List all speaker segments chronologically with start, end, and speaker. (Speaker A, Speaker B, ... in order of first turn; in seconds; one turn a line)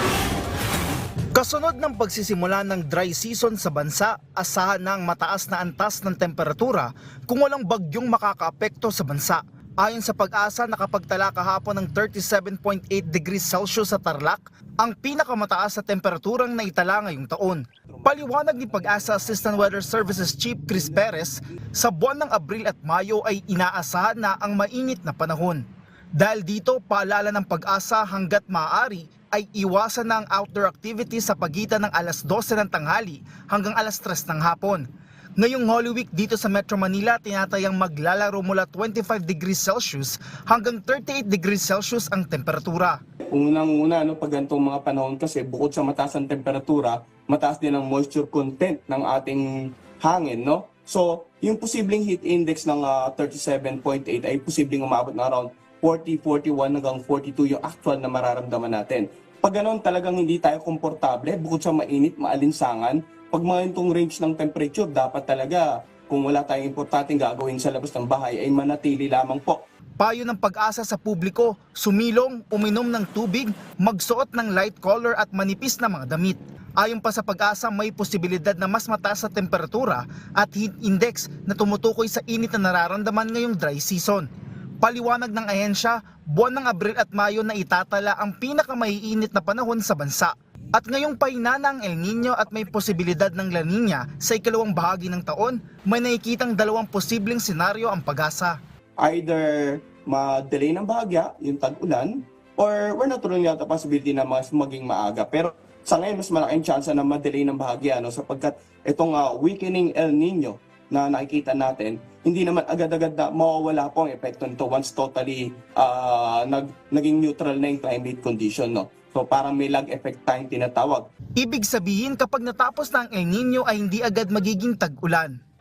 Speaker A: 1.3-25.6
Speaker B: 17.9-21.6
Speaker A: 26.2-34.8
Speaker A: 35.4-43.0
Speaker B: 43.3-69.6
Speaker A: 70.0-84.3
Speaker A: 84.8-98.6
Speaker B: 99.0-121.1
Speaker A: 121.4-125.4